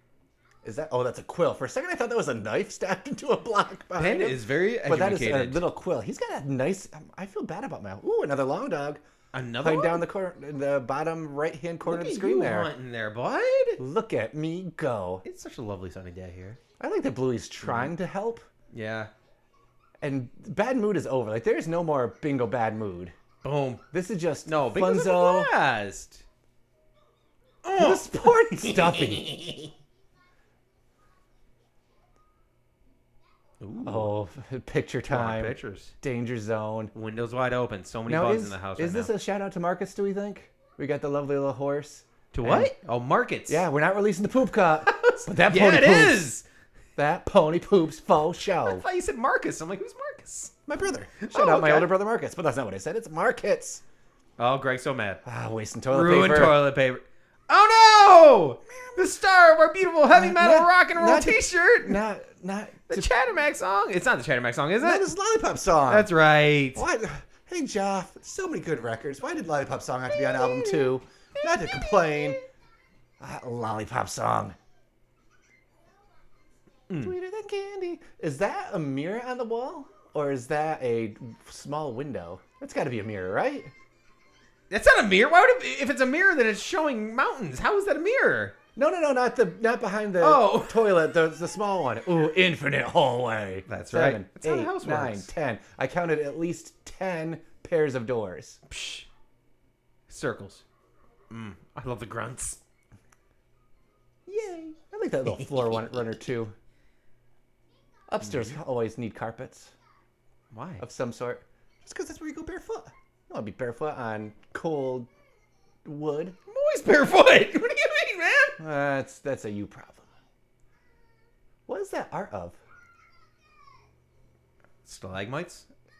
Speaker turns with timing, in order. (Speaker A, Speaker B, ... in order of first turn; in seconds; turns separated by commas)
Speaker A: 0.6-9.0, Speaker B: 4.0-5.6, Speaker B: 9.3-10.1, Speaker A: 9.6-12.7, Speaker B: 11.8-13.8, Speaker A: 13.8-15.2, Speaker B: 15.2-16.6, Speaker A: 16.8-18.4, Speaker B: 17.6-17.9, Speaker B: 18.7-19.1, Speaker A: 20.0-23.1, Speaker B: 23.4-23.8, Speaker A: 23.9-25.5, Speaker B: 24.4-26.2, Speaker B: 27.6-29.7, Speaker A: 27.8-29.3, Speaker B: 33.6-34.1, Speaker A: 33.8-36.9, Speaker B: 35.1-35.9, Speaker B: 36.9-39.1, Speaker A: 38.1-42.7, Speaker B: 42.3-43.6, Speaker A: 43.5-46.3, Speaker B: 44.9-46.4, Speaker A: 47.0-48.8, Speaker B: 48.4-50.5, Speaker A: 50.7-53.8, Speaker B: 51.2-52.0, Speaker B: 54.4-55.2, Speaker A: 55.2-56.6, Speaker B: 55.9-62.0, Speaker A: 60.1-63.1, Speaker B: 62.9-65.1, Speaker A: 64.8-66.1, Speaker B: 65.9-66.8, Speaker A: 66.8-72.4, Speaker B: 70.2-70.9, Speaker A: 73.2-74.5, Speaker A: 77.0-83.7, Speaker B: 84.7-88.5, Speaker A: 88.8-98.6, Speaker B: 90.2-90.9, Speaker B: 93.7-95.3, Speaker B: 98.7-99.1, Speaker B: 100.1-100.6, Speaker B: 101.3-102.6, Speaker A: 104.3-106.5, Speaker B: 105.2-105.9, Speaker A: 108.1-109.7, Speaker B: 108.2-108.5, Speaker B: 110.5-110.8, Speaker A: 110.8-115.1, Speaker A: 115.8-116.4, Speaker B: 116.5-118.6, Speaker A: 118.6-120.0, Speaker A: 121.7-122.6, Speaker B: 124.8-125.6